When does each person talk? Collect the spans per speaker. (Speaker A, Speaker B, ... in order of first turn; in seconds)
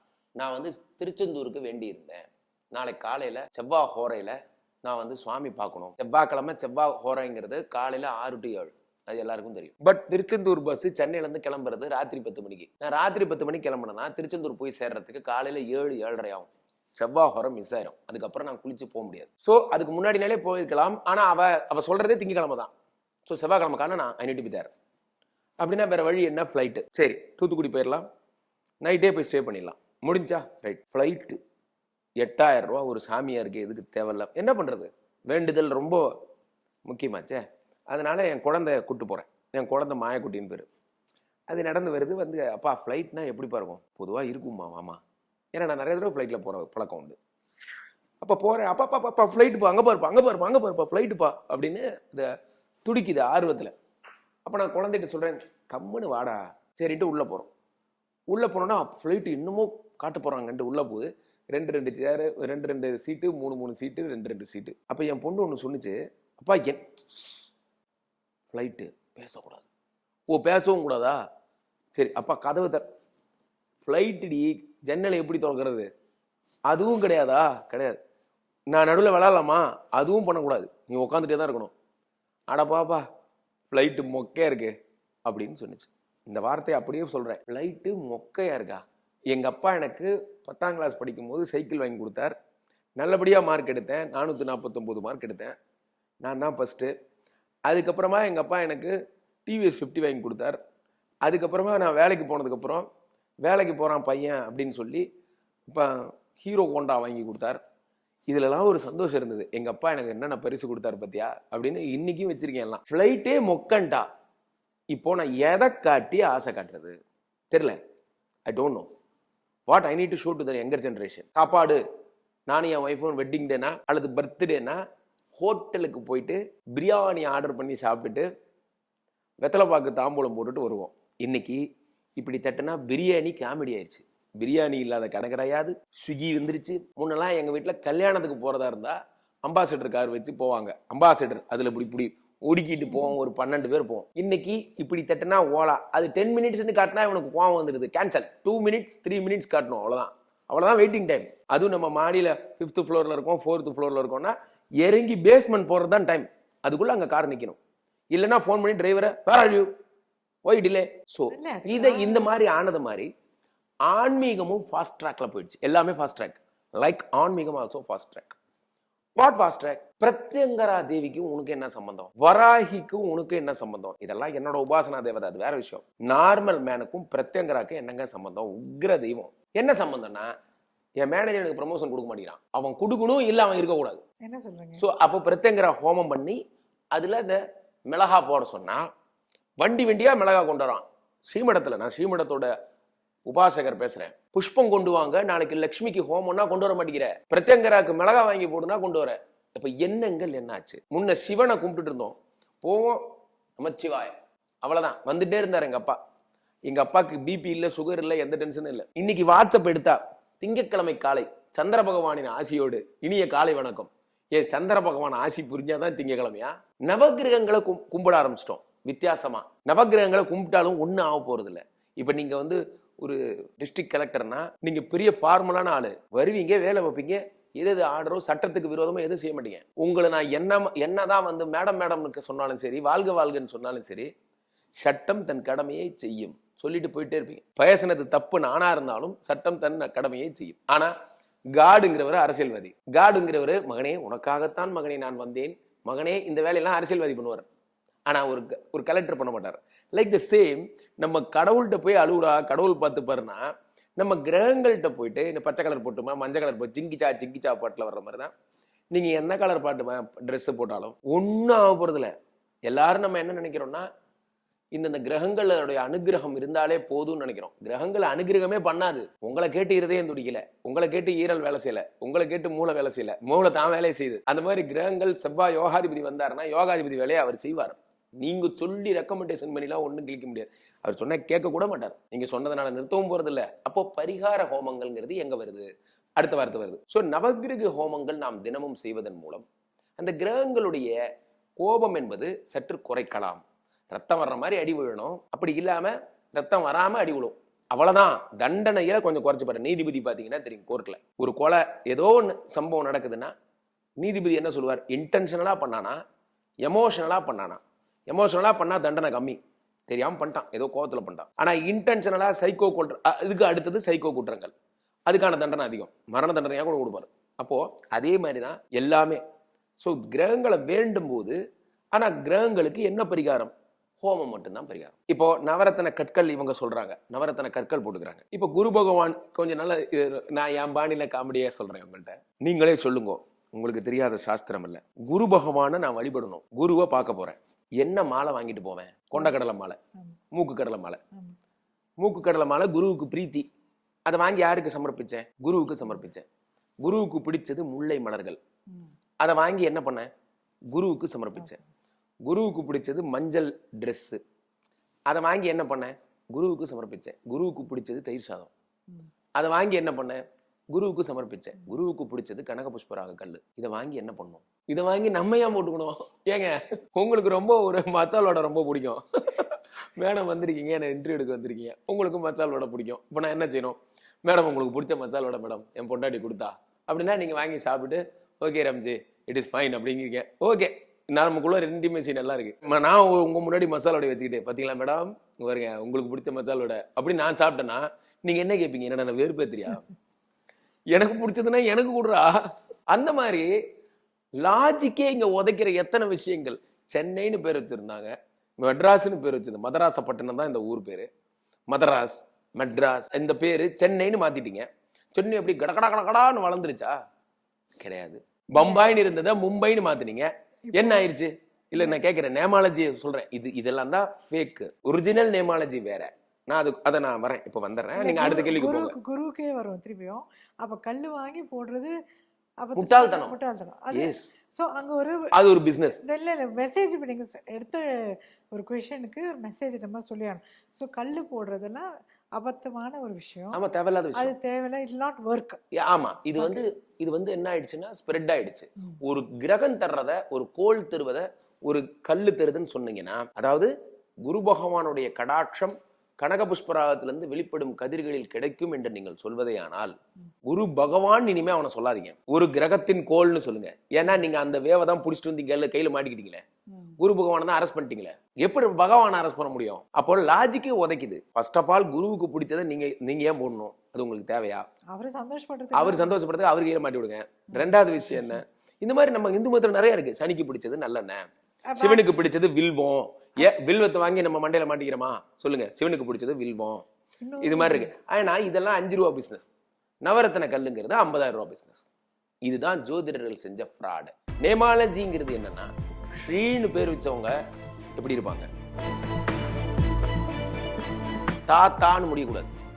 Speaker A: 0.4-22.7, 23.2-24.7, 25.6-28.0, 28.8-31.4, 32.2-36.0, 36.9-40.7, 41.5-45.0, 45.5-47.1, 48.2-52.3, 52.8-53.7, 54.5-57.5, 58.3-67.4, 68.5-69.6, 70.3-71.2, 71.9-72.8, 73.8-75.9, 76.7-78.0, 78.7-81.7, 82.5-83.0, 83.7-84.7, 85.2-92.3, 93.0-95.5, 96.2-96.9, 97.7-98.9, 99.5-100.6, 101.2-102.8, 103.4-105.0, 105.7-107.6, 108.3-114.0, 114.9-116.9, 117.5-117.8, 118.5-118.9, 119.7-121.8, 122.5-124.8, 125.4-128.2, 129.4-131.6, 132.2-157.6, 158.1-159.7, 160.4-163.1, 163.9-168.3, 169.2-180.3, 181.0-184.0, 184.8-186.4, 186.9-188.8, 189.6-192.5, 193.2-203.0, 203.6-206.0, 206.7-234.1, 234.8-240.9, 241.5-247.4, 248.1-258.3, 258.9-262.1, 262.7-263.9, 264.7-289.4, 290.0-291.0, 291.6-303.3, 304.0-306.0, 306.6-314.5, 315.1-319.2, 319.8-321.4, 321.9-339.8, 340.3-341.0, 342.0-343.4, 344.1-346.2, 346.8-348.4, 349.2-350.1, 350.7-351.6, 352.2-354.2, 355.1-358.5, 359.4-360.2, 360.7-389.9, 390.9-393.5, 394.4-401.1, 401.7-406.9, 407.8-418.9, 422.8-423.4, 423.9-424.3, 425.3-426.0, 433.5-434.3, 435.7-443.7, 444.2-449.9, 450.4-456.4, 457.0-464.6, 465.7-471.3, 471.8-476.8, 477.4-479.5, 480.0-481.9, 482.4-487.4, 488.0-488.5, 491.5-492.5
Speaker B: 161.3-162.3, 184.2-184.8, 408.6-408.9, 410.7-411.1, 417.9-421.9, 422.6-425.3, 426.0-433.6, 434.1-435.6, 436.4-436.6, 464.9-466.2, 467.6-468.4, 471.7-472.2, 477.2-477.9